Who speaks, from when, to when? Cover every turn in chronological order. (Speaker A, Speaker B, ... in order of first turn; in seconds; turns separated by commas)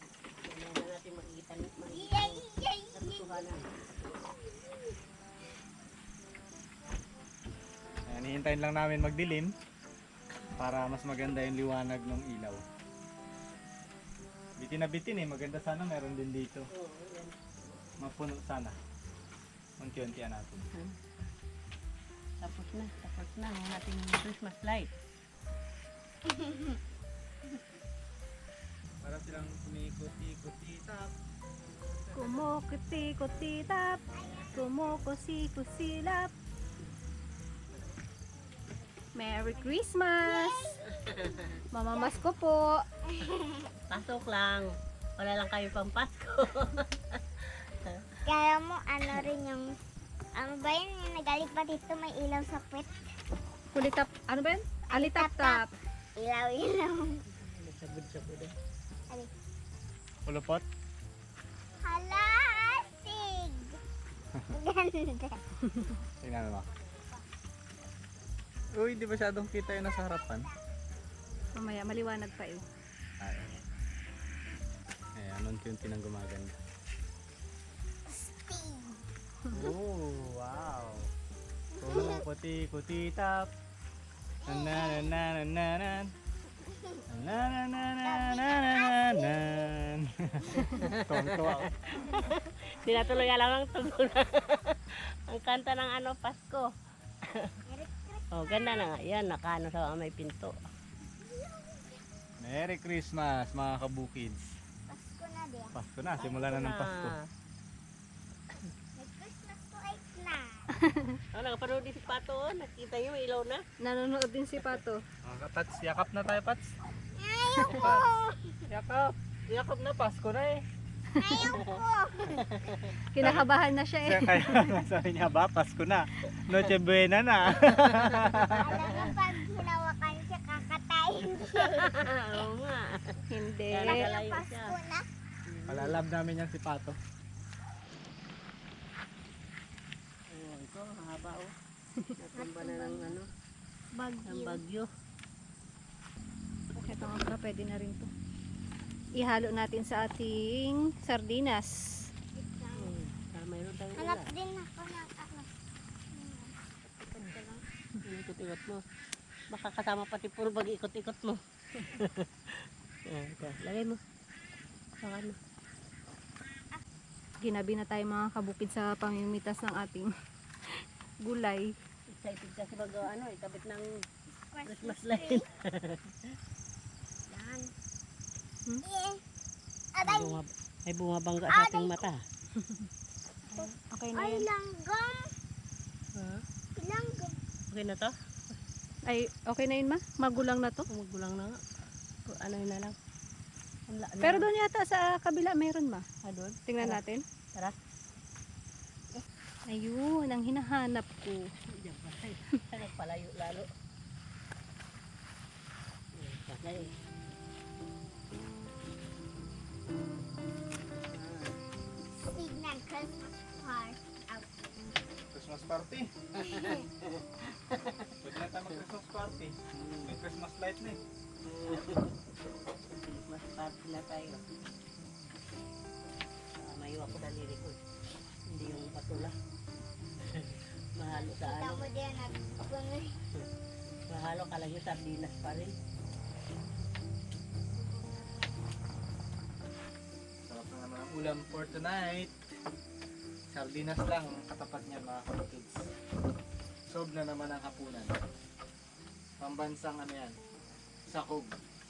Speaker A: 0.4-3.7, Speaker B: 1.9-3.4, Speaker C: 8.1-9.6, Speaker C: 10.6-12.6, Speaker C: 14.6-16.7, Speaker A: 16.7-17.8, Speaker C: 18.0-18.8, Speaker C: 19.8-20.7, Speaker A: 22.4-24.9, Speaker C: 29.0-31.1, Speaker C: 32.0-32.4, Speaker D: 32.1-36.3, Speaker B: 34.1-34.7, Speaker B: 38.5-42.2, Speaker D: 39.1-40.8, Speaker A: 41.1-41.5, Speaker D: 41.7-42.8, Speaker B: 43.1-43.7, Speaker A: 43.9-44.7, Speaker A: 45.2-47.9, Speaker B: 48.2-49.7, Speaker B: 50.3-53.0, Speaker D: 53.7-55.7, Speaker B: 54.9-55.6, Speaker B: 56.2-57.2, Speaker A: 57.3-58.5, Speaker C: 60.3-60.6, Speaker B: 61.8-63.8, Speaker B: 64.5-65.4, Speaker C: 66.2-66.7, Speaker C: 68.7-70.5, Speaker D: 71.5-72.6, Speaker C: 73.2-73.6, Speaker C: 75.2-76.6, Speaker B: 78.1-79.0, Speaker C: 79.5-81.1, Speaker B: 81.7-82.2, Speaker C: 81.8-83.5, Speaker B: 84.5-85.2, Speaker C: 84.5-86.1, Speaker B: 86.7-87.0, Speaker C: 87.1-91.8, Speaker B: 88.0-89.7, Speaker A: 90.5-96.7, Speaker B: 91.9-92.3, Speaker B: 92.9-93.2, Speaker A: 97.2-97.5, Speaker B: 97.7-98.9, Speaker A: 98.3-100.6, Speaker B: 101.2-102.0, Speaker C: 102.4-104.6, Speaker B: 104.9-105.8, Speaker C: 105.7-107.2, Speaker A: 106.1-107.3, Speaker B: 109.0-110.7, Speaker D: 110.8-111.1, Speaker A: 111.3-113.6, Speaker D: 113.8-115.0, Speaker C: 115.2-116.8, Speaker B: 117.2-118.6, Speaker C: 117.6-118.1, Speaker C: 118.7-120.6, Speaker D: 121.2-121.6, Speaker B: 121.2-122.8, Speaker A: 122.3-122.9, Speaker D: 123.1-124.8, Speaker C: 123.2-123.5, Speaker C: 124.0-128.8, Speaker B: 128.6-132.0, Speaker A: 131.5-134.8, Speaker D: 133.3-134.1, Speaker B: 133.8-135.1, Speaker A: 135.5-136.0, Speaker C: 135.7-137.0, Speaker A: 140.3-141.5, Speaker A: 142.2-143.3, Speaker B: 142.4-143.2, Speaker D: 143.9-144.6, Speaker A: 144.3-144.9, Speaker D: 146.8-148.1, Speaker B: 146.9-147.2, Speaker D: 149.2-151.7, Speaker B: 152.3-153.0, Speaker A: 152.8-154.3, Speaker B: 154.0-155.5, Speaker B: 156.1-156.5, Speaker B: 157.1-157.6, Speaker A: 158.1-158.8, Speaker A: 159.5-162.5, Speaker A: 163.1-164.0, Speaker A: 165.0-165.4, Speaker D: 167.4-170.1, Speaker D: 171.2-171.7, Speaker A: 172.1-173.9, Speaker B: 174.5-175.5, Speaker A: 174.7-176.2, Speaker B: 177.3-177.7, Speaker B: 178.8-179.2, Speaker B: 179.9-180.4, Speaker A: 180.0-182.2, Speaker B: 181.5-182.1, Speaker D: 182.6-182.9, Speaker B: 183.5-185.3, Speaker D: 183.7-184.5, Speaker A: 186.2-186.4, Speaker B: 186.8-187.4, Speaker A: 187.7-188.1, Speaker D: 189.1-190.9, Speaker A: 190.9-191.6, Speaker A: 192.3-192.9, Speaker A: 193.9-194.5, Speaker D: 194.2-196.1, Speaker A: 196.2-197.0, Speaker D: 196.7-197.2, Speaker D: 199.7-201.4, Speaker A: 201.8-203.7, Speaker A: 206.2-206.9, Speaker A: 211.1-211.6, Speaker B: 212.1-214.5, Speaker C: 215.3-216.1, Speaker B: 216.4-216.9, Speaker A: 216.4-218.1, Speaker C: 218.2-221.0, Speaker A: 219.7-220.1, Speaker A: 221.4-222.2, Speaker A: 223.0-224.4, Speaker A: 226.6-227.8, Speaker A: 228.5-229.3, Speaker A: 230.2-231.8, Speaker B: 231.1-233.2, Speaker A: 234.1-235.8, Speaker B: 237.7-238.5, Speaker C: 240.4-242.3, Speaker C: 243.5-245.9, Speaker C: 246.9-248.2, Speaker C: 249.4-250.4, Speaker C: 251.1-251.5